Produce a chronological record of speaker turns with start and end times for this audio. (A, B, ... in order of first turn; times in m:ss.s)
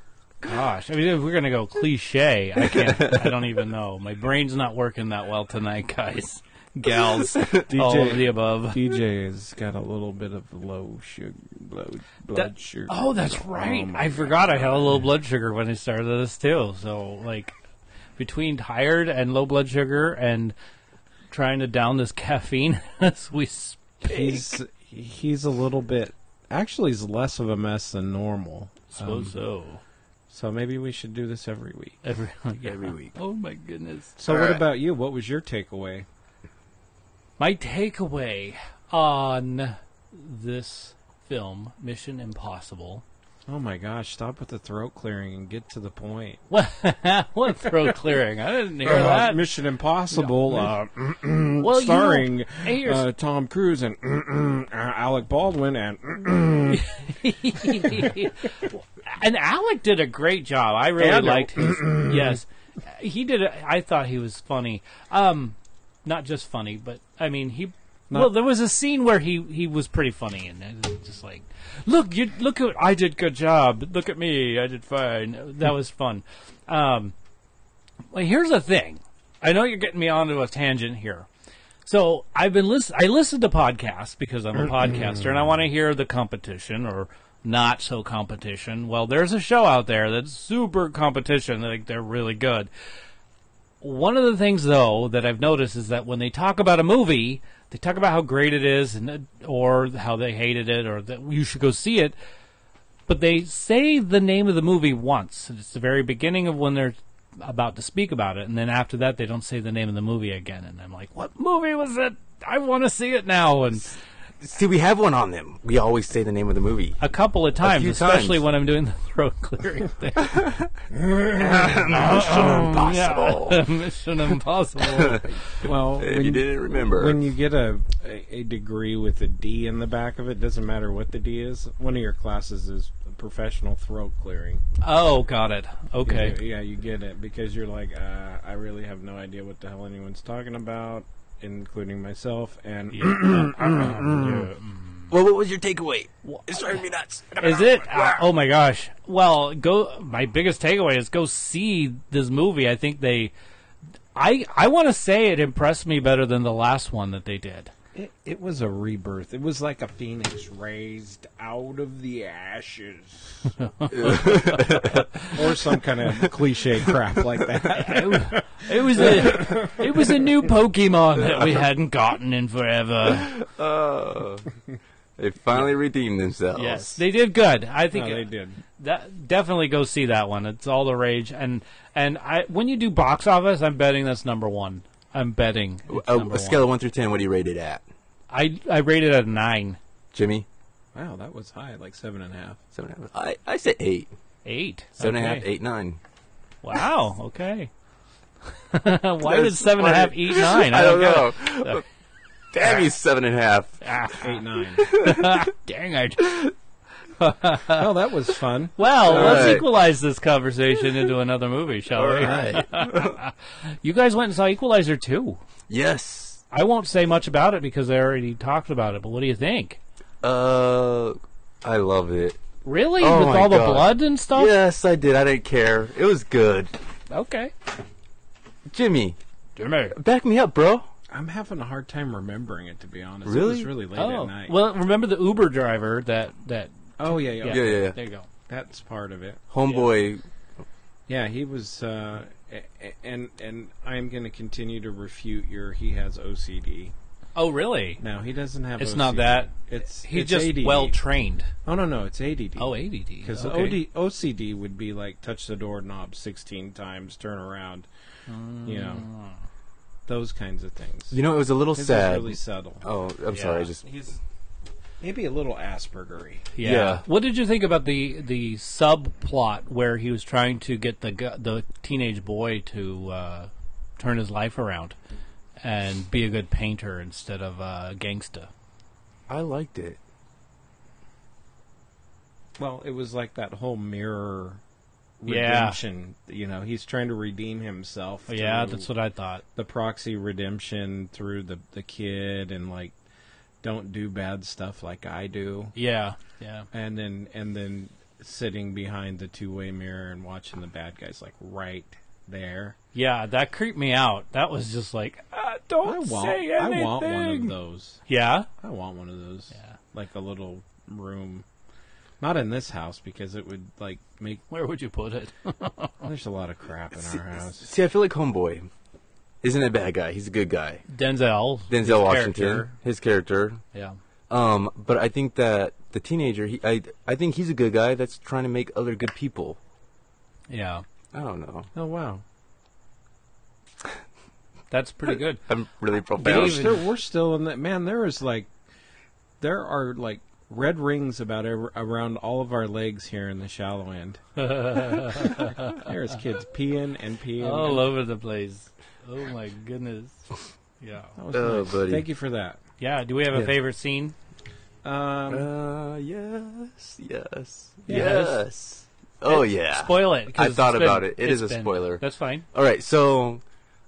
0:00.4-0:08.8 A
0:07.4-0:07.6 B
0:07.7-0:15.0 C
0:12.3-0:17.6 A
0:18.2-0:20.6 A
0:21.3-0:24.5 A
0:24.0-0:29.4 C
0:28.9-0:29.8 A
0:30.3-0:32.0 C
0:32.0-0:34.1 A
0:32.6-0:33.2 B
0:34.2-0:36.1 C
0:34.3-0:34.6 B
0:37.4-0:43.0 A
0:43.5-0:46.4 C
0:46.5-0:49.4 A
0:48.8-0:56.8 C
0:50.1-0:50.6 A
0:51.6-0:53.1 A
0:56.7-1:17.2 A
0:57.8-0:58.1 C
1:01.0-1:02.4 C
1:18.1-1:21.3 A
1:21.8-1:32.7 A
1:33.8-1:42.2 A
1:43.1-1:54.0 A
1:54.4-1:57.0 B
1:57.0-2:00.5 A
1:57.6-1:58.4 B
2:00.2-2:00.7 B
2:01.3-2:03.7 B
2:01.7-2:05.4 A
2:04.8-2:07.2 B
2:05.6-2:14.6 C
2:14.8-2:16.4 A
2:16.0-2:24.5 C
2:22.9-2:25.1 A
2:25.1-2:28.2 B
2:26.2-2:26.8 A
2:27.4-2:33.3 A
2:34.2-2:37.7 A
2:37.9-2:43.5 C
2:43.6-2:45.4 A
2:43.9-2:45.1 B
2:45.3-2:49.8 C
2:47.7-2:53.3 A
2:53.1-2:54.5 B
2:55.2-2:57.0 B
2:56.5-3:06.6 A
2:57.9-2:58.6 C
3:05.9-3:07.8 B
3:08.3-3:09.8 A
3:10.1-3:10.5 B
3:10.9-3:12.6 C
3:12.7-3:14.1 B
3:14.4-3:15.5 A
3:15.0-3:16.0 B
3:16.6-3:17.7 A
3:18.7-3:21.8 A
3:19.2-3:21.8 B
3:22.5-3:23.8 B
3:22.6-3:22.8 A
3:23.8-3:26.5 A
3:24.2-3:24.9 C
3:24.8-3:25.4 B
3:27.2-3:27.9 A
3:27.7-3:29.6 C
3:28.8-3:35.4 A
3:29.0-3:29.7 B
3:31.9-3:33.2 B
3:32.2-3:32.6 C
3:35.7-3:36.4 B
3:36.5-3:39.8 A
3:40.2-3:42.4 B
3:42.6-3:44.5 A
3:43.0-3:46.7 B
3:47.1-3:47.5 A
3:48.7-3:49.2 B
3:49.6-3:50.0 A
3:49.9-3:50.9 B
3:51.1-3:54.5 C
3:53.2-3:53.7 B
3:54.0-3:58.3 A
3:57.0-3:58.0 C
3:57.5-3:58.0 B
3:58.5-3:59.4 C
3:59.5-4:00.2 B
3:59.6-3:59.9 A
4:01.1-4:06.9 C
4:07.4-4:08.0 A
4:08.0-4:11.0 C
4:08.8-4:11.5 A
4:11.6-4:17.9 C
4:12.6-4:13.8 A
4:18.3-4:19.4 A
4:18.6-4:19.1 C
4:20.1-4:21.2 C
4:21.1-4:23.9 B
4:21.7-4:22.8 C
4:23.3-4:23.7 A
4:25.0-4:26.5 C
4:26.6-4:35.0 A
4:26.6-4:27.0 B
4:35.6-4:38.5 A
4:39.3-4:40.0 B
4:42.6-4:44.6 C
4:45.2-4:48.9 C
4:45.3-4:45.8 A
4:48.3-4:49.4 A
4:49.6-4:53.0 C
4:53.6-4:55.8 C
4:55.8-4:56.7 A
4:56.7-5:02.8 C
5:02.9-5:07.6 A
5:05.8-5:08.0 C
5:08.1-5:08.5 A
5:08.6-5:11.5 C
5:12.2-5:14.4 C
5:14.5-5:16.0 A
5:16.0-5:17.7 C
5:17.1-5:18.7 B
5:19.4-5:20.8 B
5:20.9-5:22.7 A
5:21.7-5:23.6 B
5:24.3-5:29.6 B
5:30.5-5:30.8 A
5:31.1-5:31.7 B
5:31.7-5:32.2 C
5:34.7-5:35.4 A
5:35.4-5:36.8 B
5:36.1-5:36.8 A
5:36.2-5:38.5 C
5:39.4-5:47.9 C
5:44.4-5:45.9 A
5:47.4-5:51.2 A
5:51.2-5:52.6 C
5:51.3-5:52.1 B
5:52.8-5:54.2 A
5:54.8-5:55.5 C
5:55.3-6:03.4 B
5:57.9-5:58.2 C
5:57.9-5:58.5 A
5:59.3-6:02.5 A